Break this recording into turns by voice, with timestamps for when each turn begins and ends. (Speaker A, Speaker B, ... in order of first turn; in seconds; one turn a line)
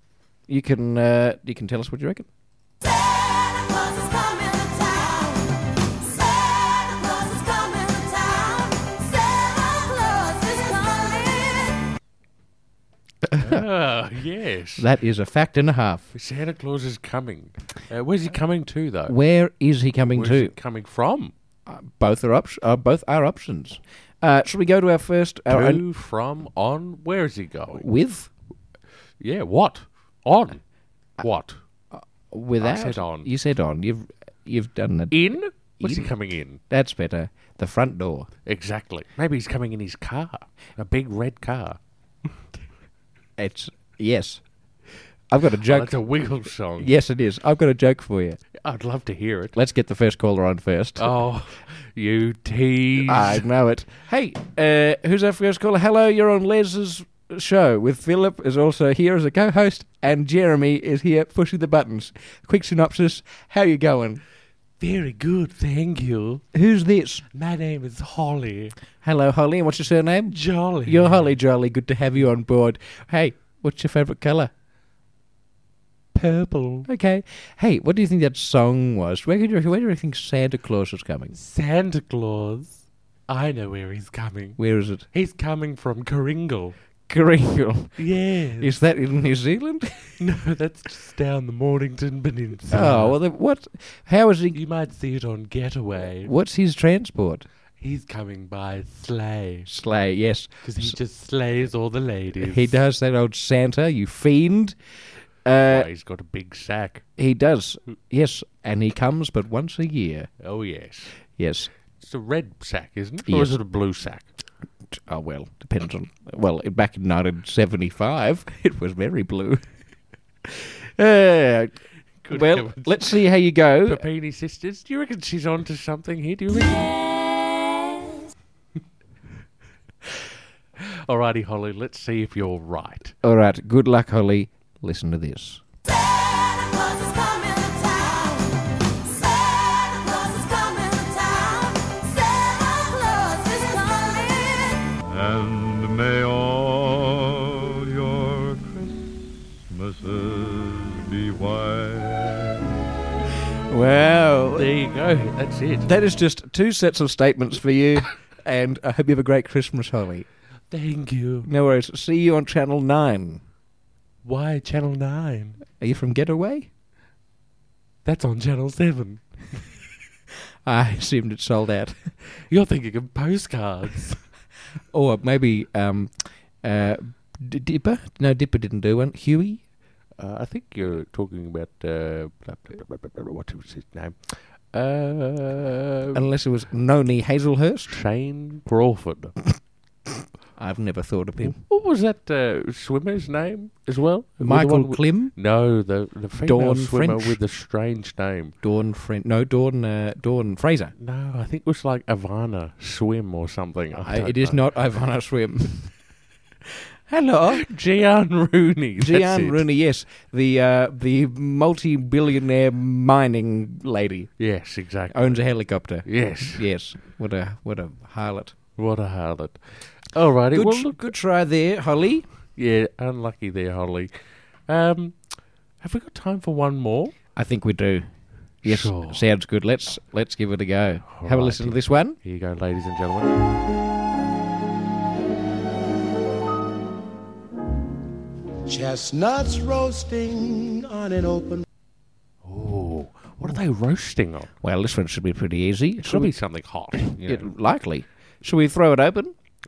Speaker A: 0.5-2.3
Speaker B: 3.3-11.7
Speaker A: 13.2-13.7
Speaker C: 13.4-14.9
Speaker A: 14.8-16.1
Speaker C: 16.1-19.1
Speaker A: 19.1-20.5
Speaker C: 20.1-21.3
Speaker A: 21.6-25.8
Speaker C: 25.5-27.9
Speaker A: 27.7-28.3
Speaker C: 29.2-30.6
Speaker C: 31.2-31.6
Speaker A: 31.9-38.3
Speaker C: 32.6-33.3
Speaker C: 35.1-36.6
Speaker C: 38.5-41.8
Speaker A: 43.4-44.4
Speaker A: 45.3-46.0
Speaker C: 45.6-46.9
Speaker A: 46.8-48.4
Speaker C: 48.6-49.5
Speaker A: 49.5-51.1
Speaker C: 51.0-53.4
Speaker A: 53.0-64.2
Speaker C: 64.8-66.4
Speaker A: 66.5-67.2
Speaker C: 67.3-68.7
Speaker A: 69.0-74.5
Speaker C: 70.3-71.3
Speaker C: 76.1-76.9
Speaker A: 76.8-81.3
Speaker C: 81.3-86.8
Speaker A: 84.6-85.0
Speaker A: 87.1-90.2
Speaker C: 88.0-88.7
Speaker C: 90.2-93.2
Speaker A: 92.7-94.6
Speaker C: 94.5-96.3
Speaker A: 96.2-97.5
Speaker C: 97.8-99.7
Speaker A: 99.7-101.0
Speaker C: 100.6-102.8
Speaker A: 102.4-104.8
Speaker A: 105.4-105.9
Speaker C: 105.7-107.0
Speaker A: 107.2-110.3
Speaker C: 110.4-111.2
Speaker A: 111.3-111.7
Speaker C: 112.0-114.3
Speaker A: 113.3-113.5
Speaker A: 114.9-119.7
Speaker A: 120.4-124.0
Speaker C: 122.2-123.1
Speaker C: 123.8-126.9
Speaker C: 130.8-133.1
Speaker A: 133.2-135.6
Speaker B: 136.1-138.6
Speaker B: 139.2-144.8
Speaker D: 145.1-152.6
Speaker A: 153.7-154.7
Speaker C: 154.5-155.9
Speaker A: 155.8-160.3
Speaker C: 160.7-161.5
Speaker A: 161.4-163.4
Speaker C: 164.2-165.6
Speaker A: 165.7-166.7
Speaker C: 168.0-169.2
Speaker A: 170.6-172.1
Speaker C: 172.4-174.2
Speaker A: 174.9-179.6
Speaker C: 180.2-186.2
Speaker A: 186.1-187.9
Speaker C: 187.9-189.3
Speaker A: 190.6-191.6
Speaker C: 191.4-198.5
Speaker A: 194.4-195.3
Speaker A: 196.3-197.4
Speaker A: 198.6-200.9
Speaker C: 201.0-204.7
Speaker A: 204.0-206.0
Speaker A: 207.1-207.7
Speaker C: 207.5-209.6
Speaker A: 209.0-214.3
Speaker C: 214.4-215.5
Speaker A: 215.1-218.6
Speaker C: 216.0-216.6
Speaker C: 218.8-221.1
Speaker A: 220.5-222.3
Speaker C: 222.6-227.1
Speaker A: 227.3-232.2
Speaker C: 228.6-229.2
Speaker C: 231.1-233.3
Speaker E: 238.7-241.7
Speaker C: 242.4-244.5
Speaker A: 244.6-246.4
Speaker C: 246.0-247.5
Speaker A: 246.9-249.3